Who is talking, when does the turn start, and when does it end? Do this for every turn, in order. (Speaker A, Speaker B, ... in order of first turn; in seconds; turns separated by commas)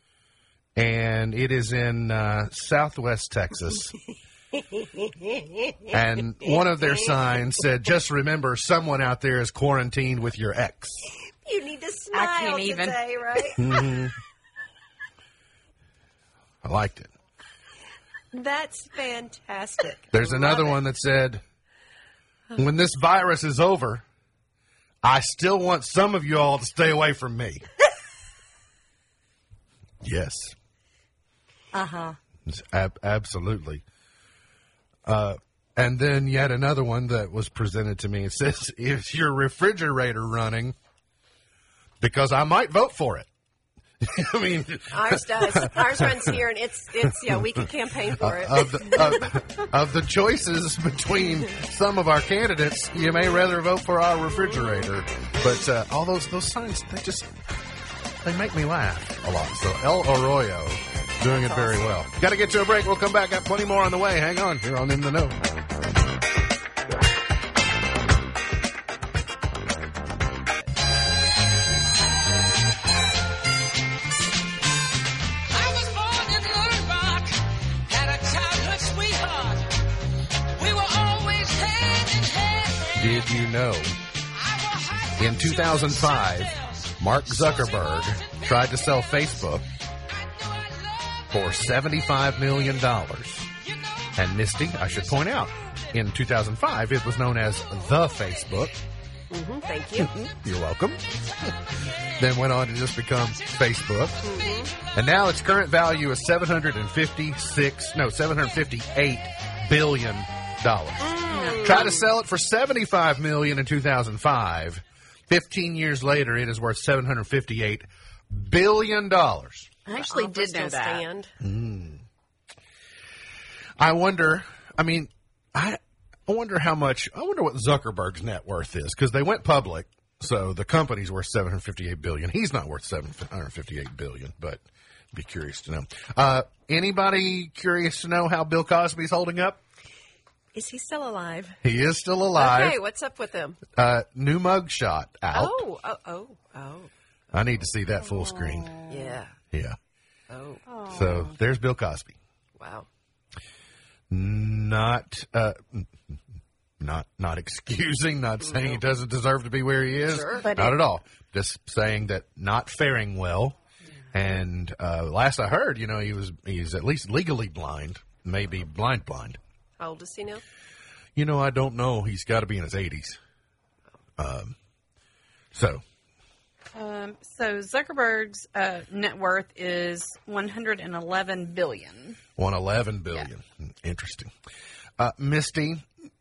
Speaker A: 0.8-3.9, Speaker A: 5.9-11.1, Speaker B: 11.4-13.9, Speaker C: 12.1-13.5, Speaker A: 13.6-14.2, Speaker A: 16.6-17.1, Speaker B: 18.3-20.8, Speaker A: 20.1-21.4, Speaker A: 22.6-24.0, Speaker A: 25.0-27.6, Speaker A: 30.0-30.6, Speaker C: 31.8-32.1, Speaker A: 32.5-33.8, Speaker A: 35.1-40.8, Speaker A: 42.0-43.3, Speaker A: 44.0-46.4, Speaker B: 44.9-49.4, Speaker A: 48.1-57.3, Speaker A: 58.2-65.4, Speaker B: 61.4-61.8, Speaker C: 76.3-77.2, Speaker C: 78.5-79.3, Speaker A: 82.9-84.0, Speaker A: 85.2-89.7, Speaker A: 91.3-93.5, Speaker A: 94.1-98.8, Speaker B: 99.3-100.2, Speaker A: 100.0-101.6, Speaker A: 102.1-119.7, Speaker B: 104.2-104.8, Speaker B: 111.0-112.0, Speaker C: 111.3-111.9, Speaker C: 119.9-121.1, Speaker B: 119.9-121.3, Speaker A: 121.4-122.0, Speaker A: 123.8-139.6, Speaker B: 140.5-141.6, Speaker A: 141.6-142.8, Speaker B: 142.4-143.6, Speaker A: 143.8-145.6, Speaker B: 145.3-146.9, Speaker A: 147.3-148.8, Speaker C: 148.2-149.2, Speaker B: 148.9-149.3, Speaker A: 149.5-149.8, Speaker B: 150.3-150.6, Speaker C: 150.7-151.3, Speaker A: 150.9-152.2, Speaker B: 152.6-152.9, Speaker A: 154.1-156.1, Speaker A: 156.8-163.6, Speaker B: 160.2-160.4, Speaker C: 160.3-160.8, Speaker A: 164.1-169.4, Speaker B: 169.8-170.4, Speaker A: 171.2-173.2, Speaker A: 174.2-174.6, Speaker A: 175.5-175.8, Speaker C: 176.8-182.2, Speaker A: 182.4-184.3, Speaker A: 185.0-185.8